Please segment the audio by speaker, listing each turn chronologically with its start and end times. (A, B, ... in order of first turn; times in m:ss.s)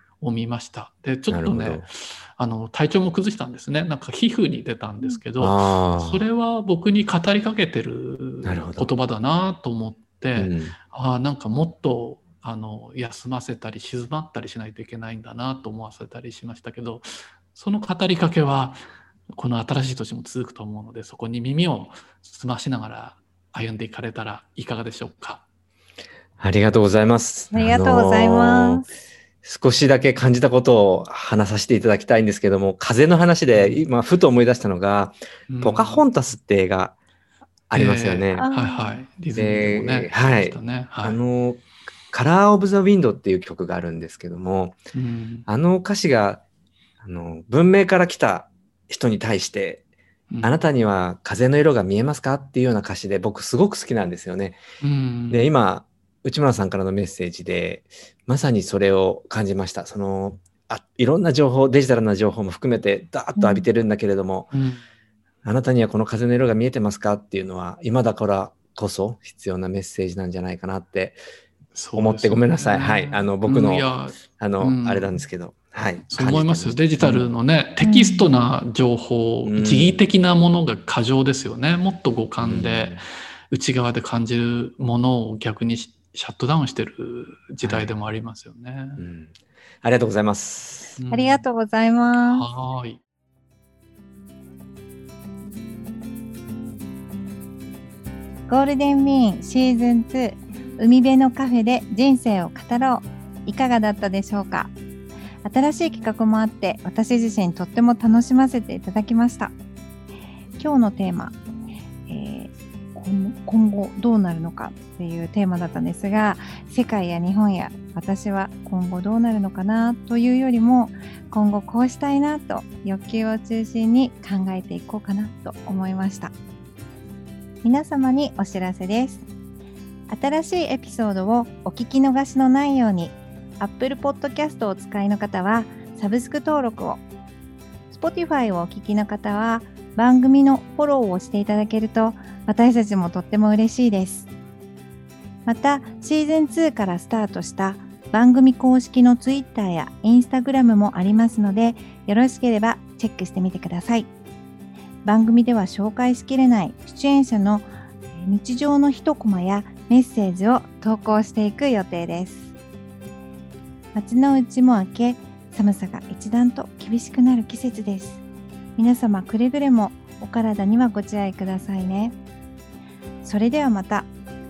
0:00.2-0:18.8 A
0:01.3-0:01.8 B
0:05.4-0:06.2 B
0:08.4-0:08.9 B
0:10.4-0:10.7 B
0:19.3-0:25.4 A
0:26.4-0:28.8 B
0:27.5-0:28.9 C
0:29.4-0:37.0 B
0:33.5-0:33.8 A
0:35.5-0:36.0 A
0:37.7-0:38.5 B
0:37.7-0:41.2 A
0:38.4-0:39.0 C
0:39.4-0:44.8 B
0:44.9-0:45.5 A
0:45.5-0:46.4 B
0:47.0-0:49.8 B
0:50.4-0:54.6 B
0:54.8-0:55.5 A
0:55.3-1:04.5 B
1:03.4-1:03.6 C
1:04.5-1:04.8 A
1:05.4-1:11.2 B
1:11.8-1:15.2 A
1:12.0-1:17.3 B
1:16.1-1:29.0 A
1:17.8-1:18.3 C
1:19.4-1:20.0 B
1:22.4-1:23.0 B
1:27.6-1:27.9 B
1:29.0-1:31.0 B
1:31.0-1:31.4 A
1:31.1-1:32.5 C
1:32.3-1:33.0 A
1:38.5-1:44.7 C
1:45.4-1:49.5 C
1:50.6-1:51.4 C
1:52.1-2:06.3 C
2:07.6-2:09.3 C
2:10.1-2:17.0 C
2:17.9-2:24.3 C
2:25.5-2:34.1 C
2:35.0-2:42.5 C
2:43.9-2:48.2 C
2:48.8-2:52.2 C
2:53.2-2:54.1 C